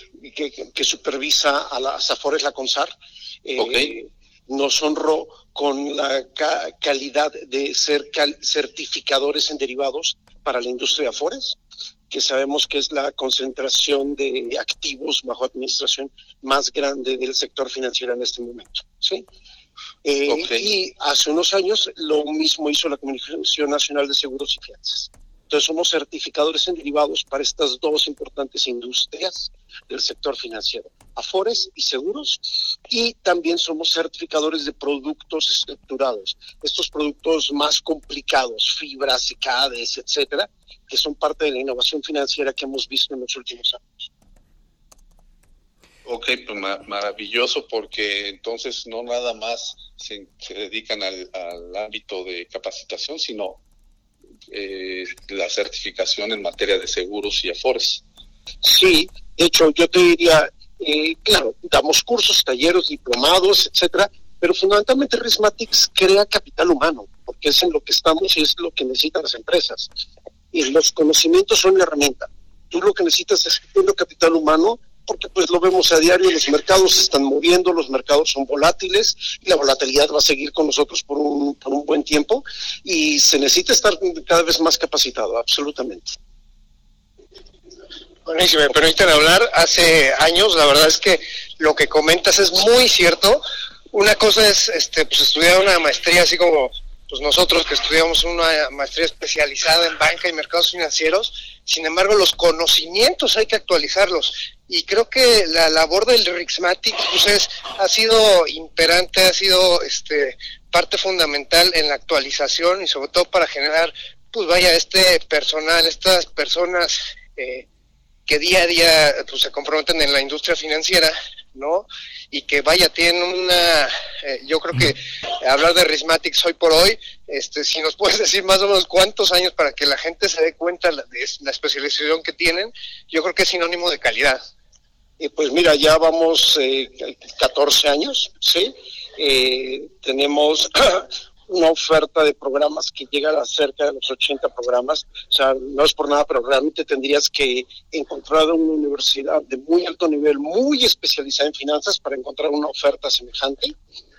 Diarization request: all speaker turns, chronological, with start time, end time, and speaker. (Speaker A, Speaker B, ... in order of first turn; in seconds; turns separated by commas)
Speaker A: 0.2-2.9, Speaker A: 3.4-11.6, Speaker B: 3.6-3.9, Speaker A: 12.1-19.2, Speaker A: 20.0-43.9, Speaker B: 20.3-20.6, Speaker B: 46.0-53.6, Speaker B: 54.5-58.0, Speaker A: 58.6-69.9, Speaker A: 70.5-86.2, Speaker C: 88.3-117.6, Speaker C: 118.3-134.4, Speaker A: 135.2-153.8